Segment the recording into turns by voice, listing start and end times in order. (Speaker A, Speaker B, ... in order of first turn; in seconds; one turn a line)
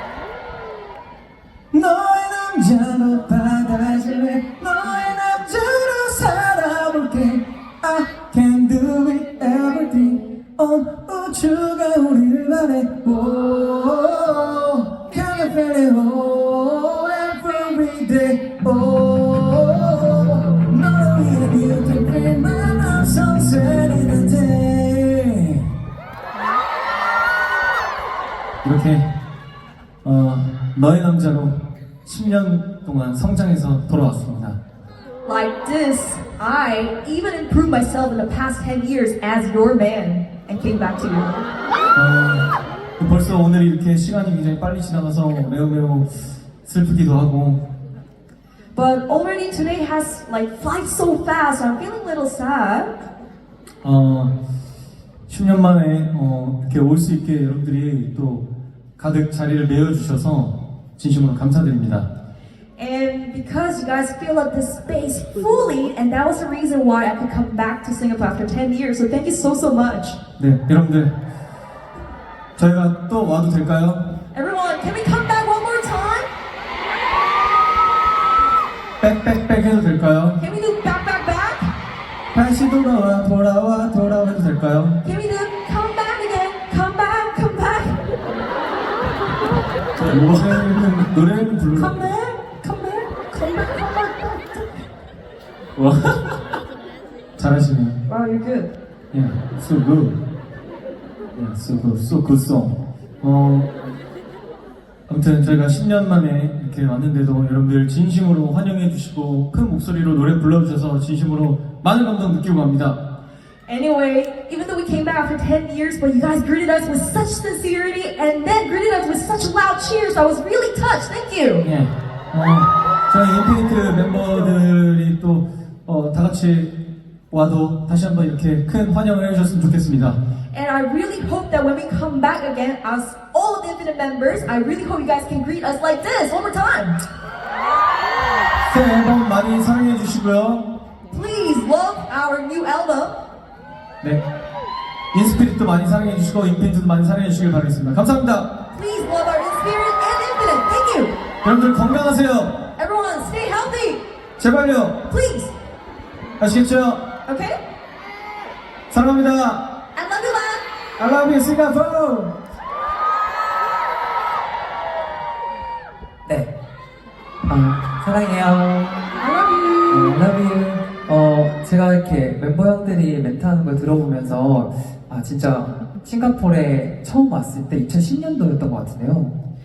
Speaker A: 1.7-25.6
Speaker A: 28.6-29.1
Speaker A: 30.0-34.6
Speaker B: 35.2-41.4
Speaker A: 41.9-42.5
Speaker A: 43.0-47.6
Speaker B: 48.7-53.0
Speaker A: 53.8-54.3
Speaker A: 55.3-58.5
Speaker A: 59.0-62.1
Speaker B: 62.8-70.2
Speaker A: 70.4-71.1
Speaker A: 72.6-74.1
Speaker B: 74.3-76.3
Speaker A: 79.0-80.4
Speaker B: 80.4-81.7
Speaker A: 82.3-85.0
Speaker B: 85.0-88.0
Speaker A: 90.0-91.9
Speaker B: 91.7-94.8
Speaker A: 95.8-96.3
Speaker A: 97.4-98.0
Speaker B: 98.1-98.8
Speaker A: 99.1-100.2
Speaker A: 101.4-103.7
Speaker A: 105.1-113.0
Speaker B: 113.7-121.7
Speaker A: 121.6-126.8
Speaker B: 124.2-124.5
Speaker A: 127.3-130.2
Speaker B: 130.5-137.0
Speaker A: 138.7-140.7
Speaker B: 141.1-143.2
Speaker A: 145.1-148.5
Speaker B: 148.7-151.2
Speaker A: 151.4-152.7
Speaker B: 152.8-154.0
Speaker A: 154.4-155.0
Speaker B: 155.1-155.6
Speaker A: 156.4-157.1
Speaker B: 157.3-157.6
Speaker A: 158.9-159.7
Speaker B: 159.9-160.7
Speaker A: 161.0-162.3
Speaker C: 166.3-166.5
Speaker C: 167.4-169.2
Speaker B: 169.2-170.2
Speaker C: 169.9-179.4